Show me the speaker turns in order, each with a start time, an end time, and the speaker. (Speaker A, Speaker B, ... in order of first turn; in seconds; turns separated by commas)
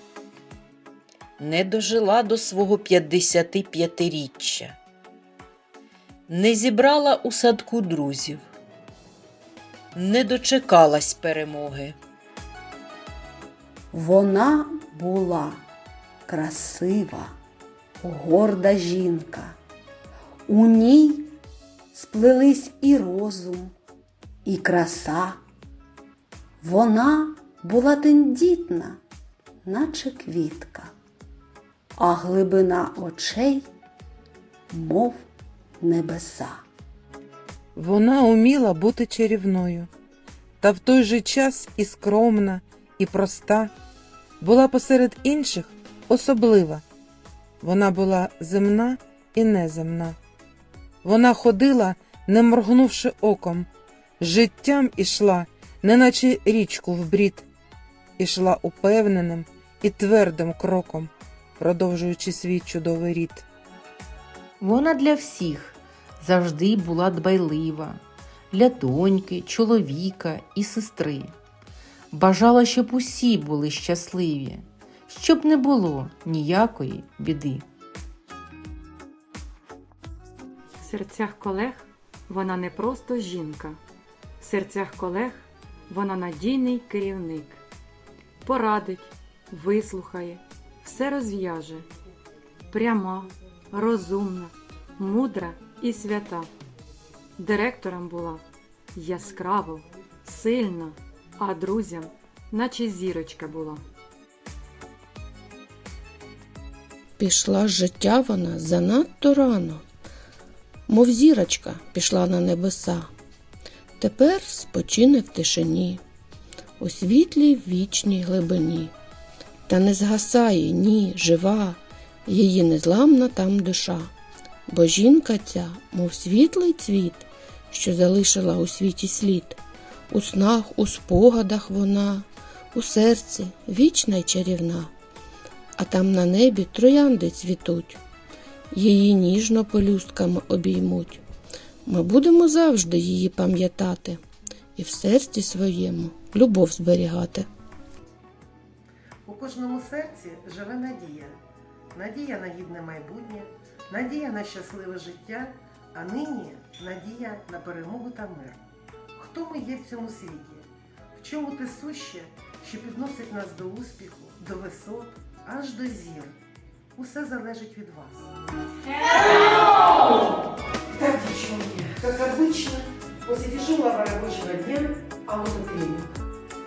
Speaker A: 1.4-4.8, Speaker A: 6.3-8.4, Speaker A: 9.9-12.0, Speaker B: 13.9-15.6, Speaker B: 16.3-17.3, Speaker B: 18.0-19.6, Speaker B: 20.5-21.3, Speaker B: 21.9-23.7, Speaker B: 24.4-25.4, Speaker B: 26.6-29.0, Speaker B: 29.6-30.9, Speaker B: 32.0-33.7, Speaker B: 34.7-35.2, Speaker B: 35.8-36.6, Speaker C: 37.7-39.9, Speaker C: 40.6-43.7, Speaker C: 44.4-46.8, Speaker C: 47.6-50.2, Speaker C: 51.0-53.7, Speaker C: 54.2-57.5, Speaker C: 58.2-63.5, Speaker D: 64.6-68.0, Speaker D: 68.5-71.3, Speaker D: 72.1-77.6, Speaker E: 80.8-83.8, Speaker E: 84.4-87.6, Speaker E: 88.4-91.8, Speaker E: 92.7-96.5, Speaker E: 97.4-98.4, Speaker E: 98.9-103.8, Speaker F: 107.2-109.8, Speaker F: 110.9-113.1, Speaker F: 114.0-116.0, Speaker F: 116.8-118.9, Speaker F: 119.7-124.1, Speaker F: 124.7-129.6, Speaker F: 130.1-134.9, Speaker F: 135.8-138.0, Speaker F: 138.7-141.2, Speaker F: 141.8-144.2, Speaker F: 144.8-147.5, Speaker G: 149.2-151.3, Speaker G: 151.9-158.6, Speaker G: 159.2-160.6, Speaker G: 161.2-166.3, Speaker G: 166.9-168.3, Speaker G: 169.1-170.2, Speaker G: 170.9-176.1